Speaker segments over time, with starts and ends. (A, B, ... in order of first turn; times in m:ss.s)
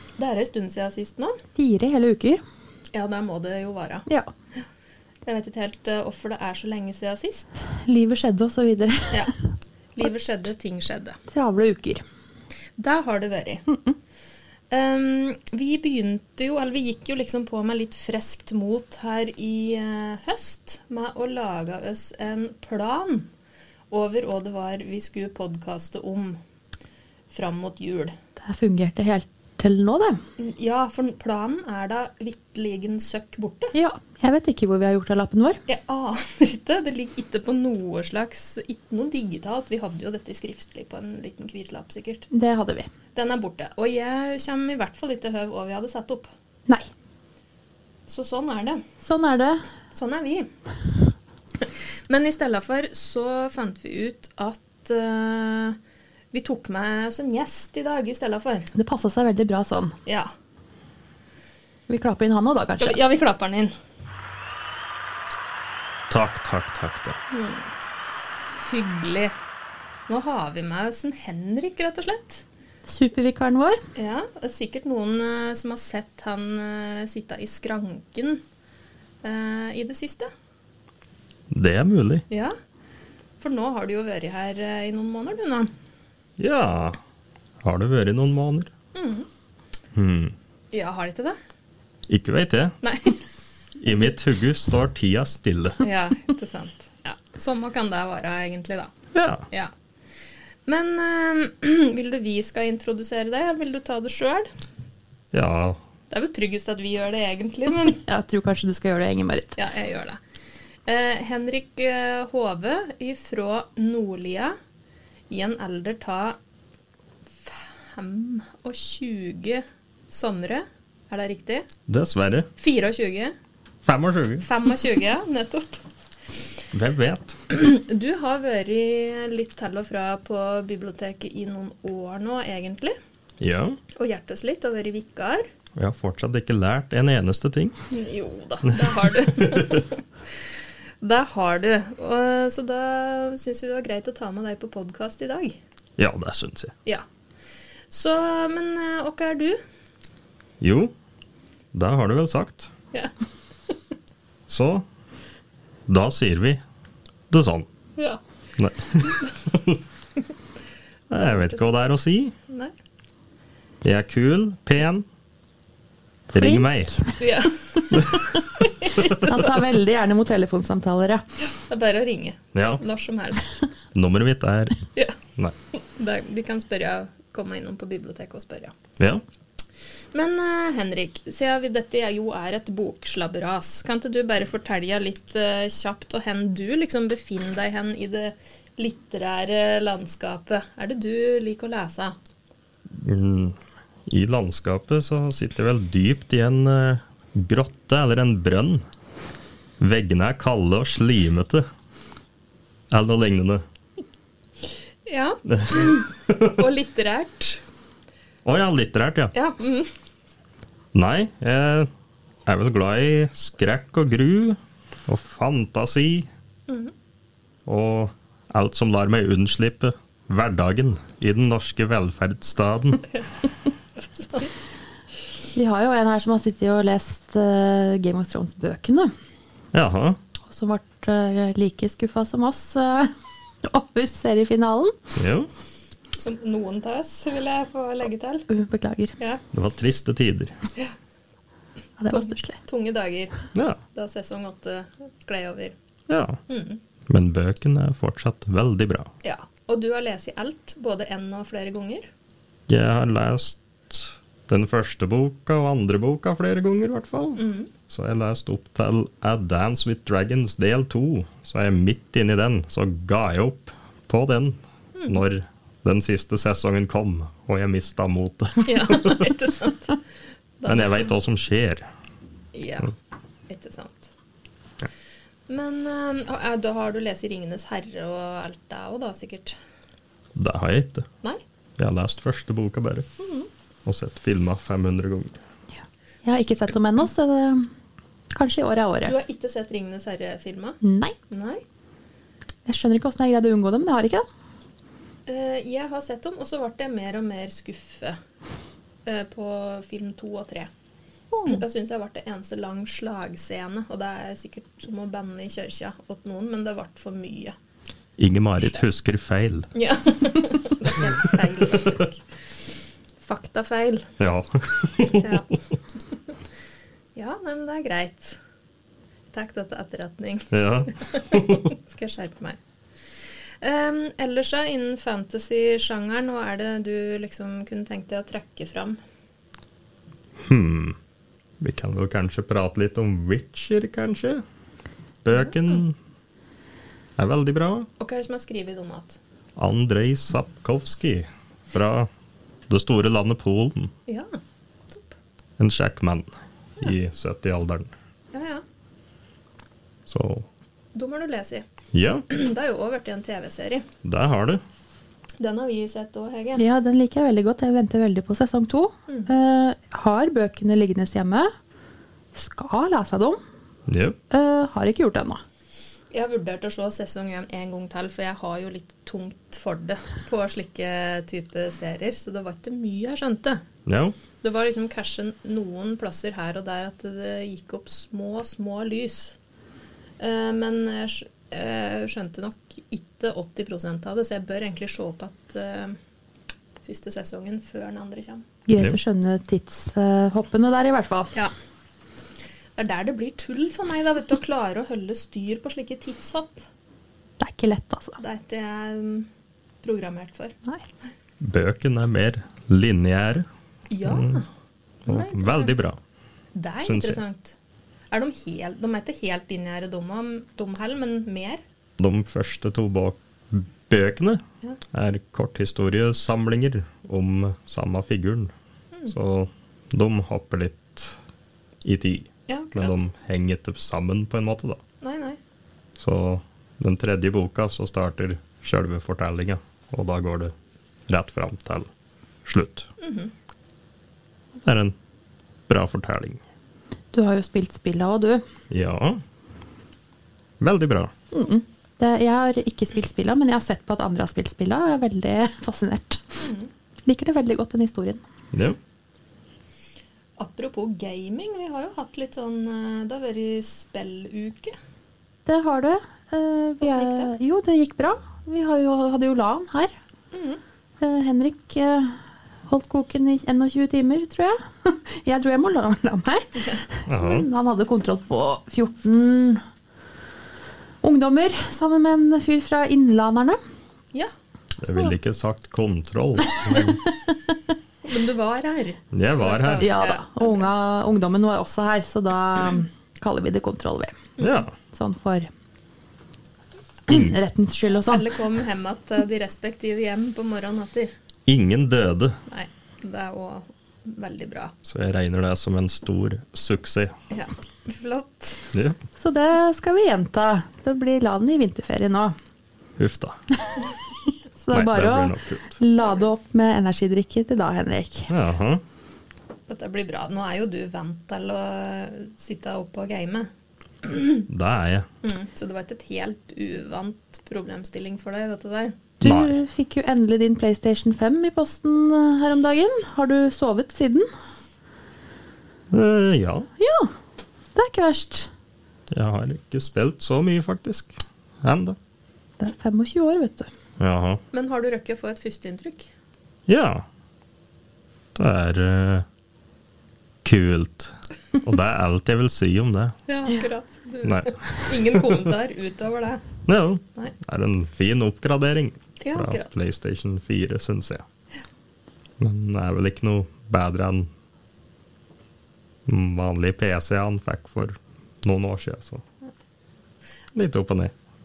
0:00.2-0:01.4 A
0:01.6-0:02.4 B
0:02.9-0:04.1 A
0:05.2-0:07.6 A
0:07.7-0:09.5 B
0:10.0-0:11.2 A
0:11.3-0:12.0 B
0:12.8-0:13.7 A
0:13.7-0:14.0 B
0:14.7-0:23.3 A
0:23.9-0:26.4 A
0:27.3-0:28.1 A
0:28.4-0:30.2 B
0:30.4-0:33.7 A
0:33.7-0:35.6 B
0:35.7-0:42.3 A
0:42.3-0:42.9 B
0:43.2-0:46.3 A
0:48.1-0:48.8 A
0:49.0-0:49.6 B
0:49.9-0:50.5 A
0:51.6-0:55.8 A
0:56.3-0:58.7 A
0:58.7-1:00.0 B
1:01.9-1:03.0 B
1:02.7-1:03.7 A
1:06.1-1:07.2 C
1:07.3-1:07.7 A
1:08.6-1:09.3 A
1:10.1-1:12.4 A
1:12.9-1:13.8 B
1:14.0-1:18.4 A
1:19.2-1:20.3 A
1:21.5-1:22.3 C
1:23.4-1:25.7 A
1:26.4-1:27.0 C
1:27.6-1:28.7 C
1:29.0-1:29.3 A
1:30.0-1:30.3 C
1:30.7-1:31.4 A
1:32.1-1:32.8 C
1:32.8-1:33.2 A
1:33.8-1:35.8 C
1:35.8-1:38.9 A
1:39.1-1:39.5 C
1:40.7-1:44.5 A
1:45.3-1:45.8 C
1:46.1-1:48.0 A
1:48.1-1:49.6 B
1:49.6-1:50.2 A
1:50.9-1:54.5 A
1:55.3-1:56.4 A
1:57.4-2:01.7 A
2:01.9-2:02.5 C
2:02.6-2:03.3 A
2:03.8-2:04.5 C
2:04.4-2:05.8 A
2:06.7-2:07.4 C
2:07.5-2:13.0 A
2:13.4-2:13.8 C
2:14.0-2:15.4 A
2:15.8-2:17.8 C
2:17.9-2:20.0 A
2:18.8-2:19.6 C
2:21.0-2:25.6 A
2:26.0-2:26.7 C
2:27.9-2:29.6 A
2:30.6-2:30.9 C
2:31.7-2:32.7 C
2:34.5-2:34.8 C
2:35.9-2:36.6 C
2:37.3-2:37.7 C
2:38.6-2:39.8 C
2:41.1-2:42.3 C
2:41.2-2:41.6 A
2:43.8-2:45.0 C
2:46.3-2:47.0 C
2:46.4-2:47.1 B
2:47.2-2:49.6 A
2:49.1-2:51.2 B
2:51.6-2:53.4 A
2:52.5-2:52.8 C
2:54.0-2:54.8 C
2:56.0-2:58.8 A
2:59.0-2:59.2 C
3:00.1-3:12.2 A
3:12.9-3:13.6 C
3:14.1-3:18.8 C
3:19.8-3:21.6 C
3:22.9-3:23.6 C
3:25.1-3:27.6 A
3:25.5-3:26.5 C
3:28.4-3:29.3 C
3:29.3-3:29.9 A
3:30.9-3:31.9 C
3:32.5-3:36.3 C
3:37.7-3:43.1 C
3:44.0-3:44.5 A
3:45.5-3:49.1 B
3:49.7-3:50.2 C
3:50.5-3:53.1 B
3:53.6-3:54.9 B
3:55.2-3:55.5 C
3:56.2-3:58.5 A
3:58.5-3:59.2 B
3:59.5-4:00.5 C
4:02.0-4:02.6 B
4:02.1-4:03.4 A
4:03.9-4:05.7 A
4:06.1-4:06.4 C
4:06.5-4:06.8 A
4:07.1-4:09.1 C
4:09.2-4:12.1 A
4:12.7-4:29.2 C
4:17.4-4:17.7 A
4:25.0-4:25.2 A
4:28.6-4:30.0 A
4:30.6-4:31.1 A
4:30.7-4:31.8 C
4:32.5-4:32.9 A
4:33.5-4:34.1 A
4:35.5-4:39.6 A
4:40.4-4:41.1 C
4:41.8-4:43.1 C
4:43.2-4:43.5 A
4:43.9-4:45.4 C
4:46.2-4:47.7 B
4:48.3-4:49.2 B
4:49.0-4:50.8 A
4:50.8-4:51.2 B
4:51.3-4:51.6 A
4:52.7-4:54.2 B
4:55.3-4:58.2 A
4:59.1-5:00.7 A
5:01.3-5:01.6 B
5:01.5-5:07.5 A
5:08.2-5:09.7 C
5:09.8-5:12.2 A
5:13.2-5:14.1 A
5:14.2-5:15.2 C
5:15.1-5:15.5 A
5:17.2-5:18.4 A
5:19.3-5:22.6 A
5:20.5-5:21.7 C
5:23.6-5:29.0 A
5:30.4-5:31.0 C
5:31.6-5:34.4 C
5:35.2-5:36.0 C
5:37.2-5:37.9 C
5:38.0-5:39.2 A
5:39.6-5:42.1 C
5:42.7-5:43.9 C
5:45.6-5:47.9 C
5:48.3-5:48.6 A
5:50.1-5:50.5 C
5:51.0-5:51.6 A
5:51.9-5:52.3 C
5:52.3-5:53.9 A
5:54.0-5:54.6 C
5:55.4-5:56.6 A
5:56.6-6:01.5 B
6:02.4-6:03.4 B
6:03.9-6:04.2 C
6:04.3-6:05.4 B
6:06.1-6:13.6 A
6:13.9-6:14.2 C
6:14.4-6:19.4 A
6:20.2-6:26.0 A
6:26.8-6:28.4 A
6:28.7-6:31.3 B
6:32.8-6:36.6 A
6:37.4-6:38.2 B
6:38.2-6:39.3 A
6:39.8-6:40.5 A
6:41.4-6:43.5 C
6:43.9-6:44.5 A
6:44.0-6:44.4 C
6:45.1-6:45.8 A
6:45.1-6:46.0 C
6:46.6-6:47.6 A
6:46.8-6:47.2 C
6:48.1-6:51.6 A
6:52.0-6:54.4 C
6:54.9-6:58.5 C
6:59.1-7:01.2 C
7:01.8-7:04.8 C
7:02.5-7:03.0 A
7:05.0-7:05.4 A
7:06.0-7:10.5 C
7:11.1-7:11.9 C
7:12.5-7:12.9 C
7:13.0-7:13.3 A
7:14.6-7:15.0 C
7:15.7-7:16.4 C
7:17.1-7:18.4 B
7:18.7-7:19.2 C
7:20.6-7:21.1 C
7:21.3-7:26.4 B
7:26.4-7:26.7 A
7:27.0-7:28.2 B
7:28.5-7:28.8 C
7:30.4-7:34.8 A
7:35.5-7:39.9 B
7:36.8-7:37.3 A
7:40.3-7:40.6 A
7:41.0-7:42.2 B
7:42.7-7:49.6 B
7:47.1-7:47.5 C
7:51.0-7:53.6 B
7:54.8-7:57.0 C
7:56.7-7:57.6 B
7:58.0-8:00.7 A
7:59.1-7:59.9 C
7:59.8-8:04.2 B
8:04.4-8:04.7 A
8:04.4-8:04.7 C
8:04.9-8:05.5 B
8:07.1-8:07.4 C
8:07.1-8:08.2 B
8:07.9-8:11.1 A
8:11.5-8:12.4 C
8:12.5-8:14.7 A
8:14.8-8:17.1 C
8:17.3-8:18.6 A
8:18.7-8:19.0 C
8:19.2-8:22.4 B
8:23.0-8:23.4 C
8:24.6-8:28.3 B
8:24.7-8:25.7 C
8:28.3-8:28.8 C
8:29.7-8:33.5 A
8:34.0-8:34.4 A
8:34.5-8:35.1 C
8:35.2-8:39.0 A
8:39.2-8:44.3 B
8:39.2-8:39.6 C
8:45.9-8:46.7 C
8:46.8-8:47.1 B
8:47.8-8:48.5 B
8:49.1-8:52.0 C
8:52.6-8:53.7 B
8:54.0-8:54.4 C
8:54.5-8:56.1 A
8:56.7-8:57.0 C
8:58.4-8:59.3 C
9:00.4-9:03.2 C
9:03.3-9:06.5 A
9:04.2-9:05.4 C
9:06.7-9:11.2 C
9:09.2-9:09.8 A
9:12.4-9:14.3 C
9:16.1-9:19.2 C
9:20.6-9:21.1 C